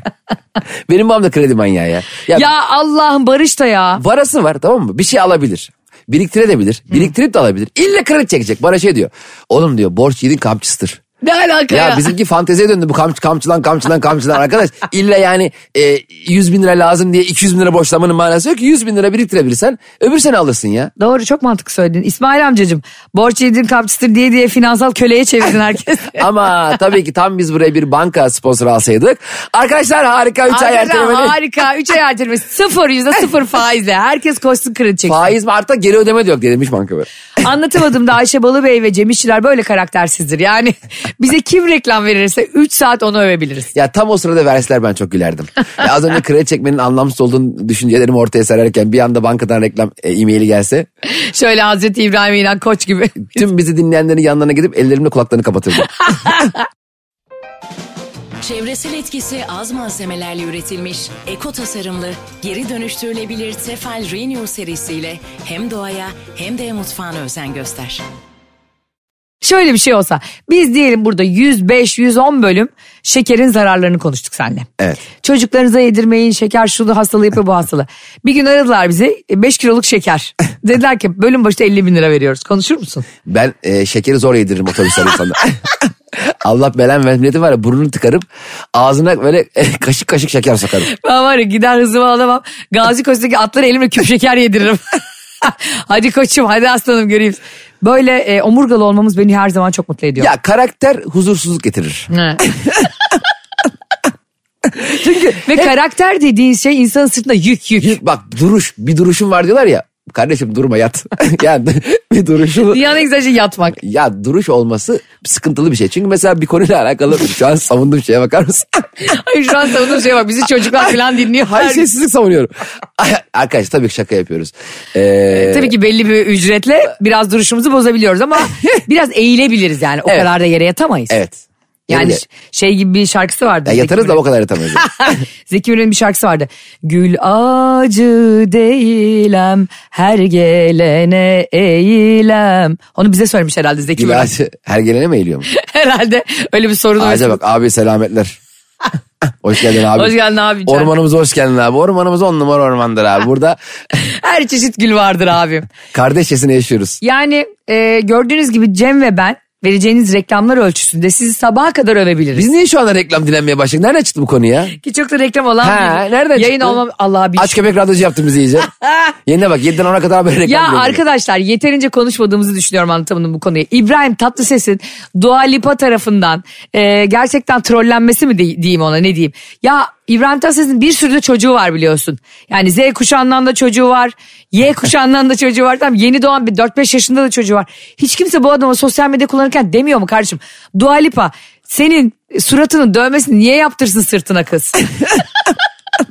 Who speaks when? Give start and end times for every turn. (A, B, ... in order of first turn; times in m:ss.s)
0:00.9-0:02.5 A
0:02.3-0:04.0 B
0:04.0-0:11.0 A
0:11.2-0:12.1 B
0:11.7-0:20.9 A
0:21.0-0:26.2 B
0:26.2-0:31.4 A
0:30.5-0:35.3 B
0:35.0-0:37.1 A
0:37.4-0:43.7 B
0:43.7-0:50.9 A
0:51.1-0:53.4 B
0:53.3-0:56.0 A
0:56.1-0:56.5 B
0:58.4-1:08.0 C
1:09.4-1:14.7 B
1:15.2-1:23.0 B
1:23.2-1:30.9 A
1:30.9-1:40.3 B
1:40.2-1:42.8 A
1:42.1-1:42.4 B
1:44.7-1:45.7 A
1:45.4-1:48.0 B
1:47.8-1:52.8 A
1:52.6-1:53.8 B
1:53.8-1:58.9 A
1:59.0-2:01.8 B
2:00.8-2:05.7 A
2:05.3-2:11.2 B
2:11.1-2:12.2 A
2:11.9-2:14.2 B
2:13.6-2:15.2 A
2:14.8-2:24.3 B
2:24.0-2:25.5 A
2:25.5-2:27.4 B
2:27.0-2:28.4 A
2:29.4-2:33.6 A
2:29.9-2:30.9 B
2:34.0-2:35.7 B
2:35.9-2:37.0 A
2:37.0-2:42.4 B
2:42.3-2:44.8 A
2:44.8-2:47.6 B
2:45.6-2:46.8 A
2:47.4-2:48.7 A
2:49.2-2:51.0 A
2:50.4-3:14.8 B